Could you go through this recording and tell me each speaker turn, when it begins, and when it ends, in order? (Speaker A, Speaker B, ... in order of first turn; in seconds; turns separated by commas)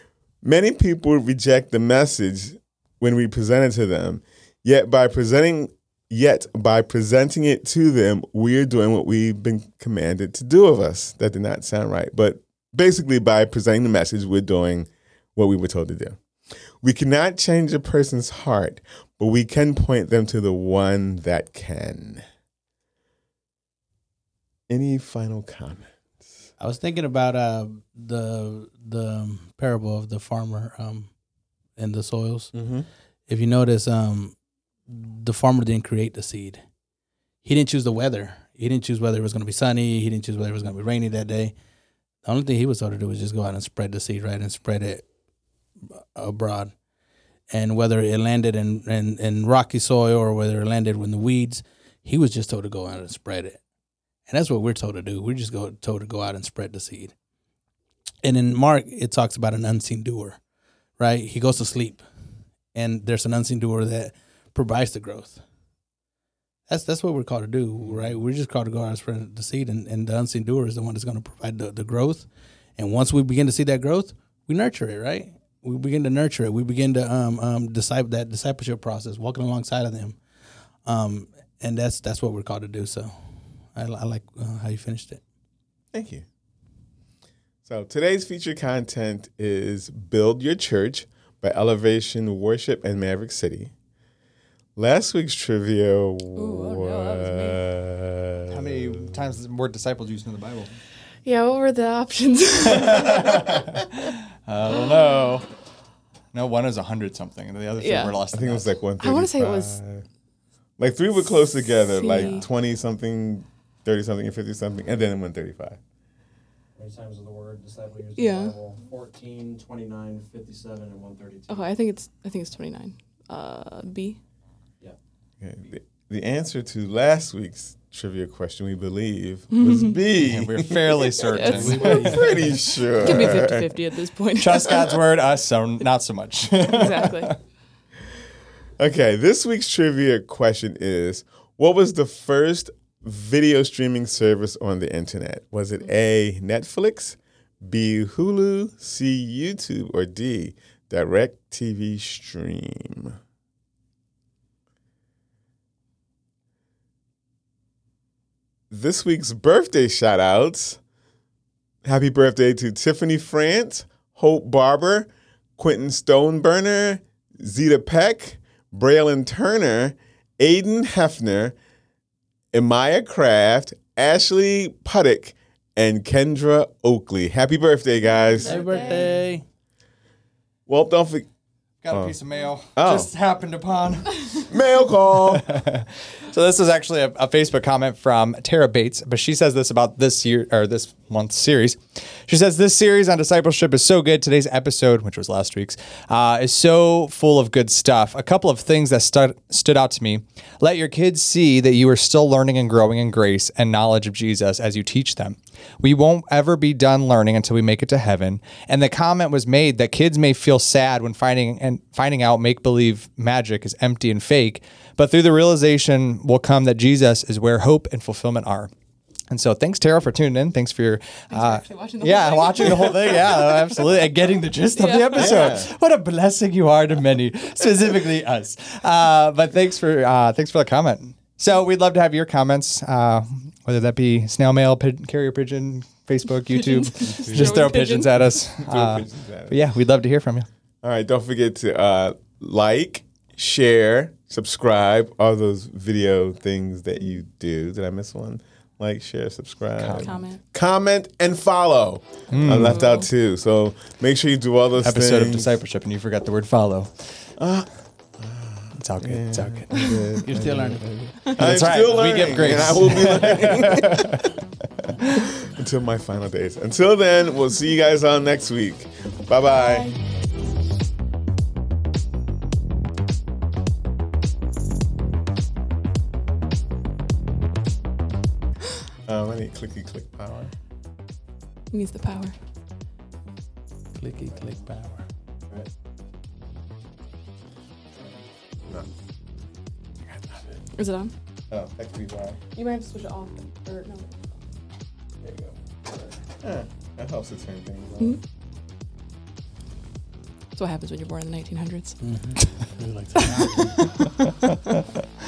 Speaker A: 0.4-16.2, Speaker A: 16.8-22.2, Speaker A: 24.7-25.9, Speaker B: 26.6-31.1, Speaker B: 31.8-32.5, Speaker A: 32.5-32.9, Speaker B: 33.3-34.4, Speaker B: 34.9-36.6, Speaker B: 37.4-41.5, Speaker B: 42.2-45.0, Speaker B: 45.9-46.7, Speaker B: 47.5-53.6, Speaker B: 54.3-57.1, Speaker B: 58.2-60.4, Speaker B: 61.0-62.0, Speaker B: 62.7-65.4, Speaker B: 66.7-80.2, Speaker B: 80.8-83.1, Speaker B: 83.7-85.2, Speaker A: 85.9-86.2, Speaker A: 87.6-93.7, Speaker A: 94.8-99.1, Speaker C: 96.3-97.6, Speaker D: 98.5-100.7, Speaker C: 101.2-103.6, Speaker D: 102.7-103.6, Speaker D: 104.4-105.6, Speaker D: 106.3-108.7, Speaker C: 107.8-108.1, Speaker A: 108.3-110.0, Speaker C: 109.0-109.8, Speaker A: 110.8-115.8, Speaker C: 111.8-112.5, Speaker D: 112.1-112.5, Speaker E: 116.8-121.7, Speaker C: 118.2-118.6, Speaker C: 121.5-124.2, Speaker A: 125.4-131.1, Speaker C: 129.5-130.0, Speaker D: 130.2-132.3, Speaker C: 131.3-134.9, Speaker B: 131.5-132.6, Speaker A: 131.6-133.8, Speaker D: 133.0-133.4, Speaker D: 134.4-137.3, Speaker C: 136.6-137.4, Speaker A: 138.8-153.2, Speaker A: 158.7-160.8, Speaker A: 161.8-171.5, Speaker A: 172.5-178.6, Speaker C: 178.4-179.1, Speaker B: 178.4-179.4, Speaker A: 180.7-181.3, Speaker D: 181.8-184.5, Speaker A: 181.9-182.2, Speaker A: 182.7-183.1, Speaker A: 184.5-185.5, Speaker D: 185.3-218.7, Speaker D: 219.3-240.5, Speaker C: 221.3-223.6, Speaker C: 224.8-225.6, Speaker A: 225.1-225.7, Speaker C: 236.6-238.1, Speaker A: 237.0-237.8, Speaker A: 238.5-239.6, Speaker A: 240.8-255.5, Speaker D: 249.8-250.1, Speaker C: 250.0-250.4, Speaker D: 252.3-252.8, Speaker C: 252.5-253.1, Speaker D: 254.8-257.4, Speaker A: 257.4-264.2, Speaker D: 258.8-260.0, Speaker B: 260.2-261.1, Speaker D: 261.3-264.3, Speaker A: 265.2-269.9, Speaker C: 269.4-270.0, Speaker A: 279.1-280.5, Speaker C: 281.7-282.3, Speaker B: 284.0-285.0, Speaker A: 290.1-290.6, Speaker C: 290.8-291.1, Speaker A: 291.5-292.4, Speaker C: 292.5-294.2, Speaker A: 295.2-295.5, Speaker A: 296.4-298.2, Speaker C: 300.6-302.4, Speaker B: 302.0-303.8, Speaker D: 303.6-304.4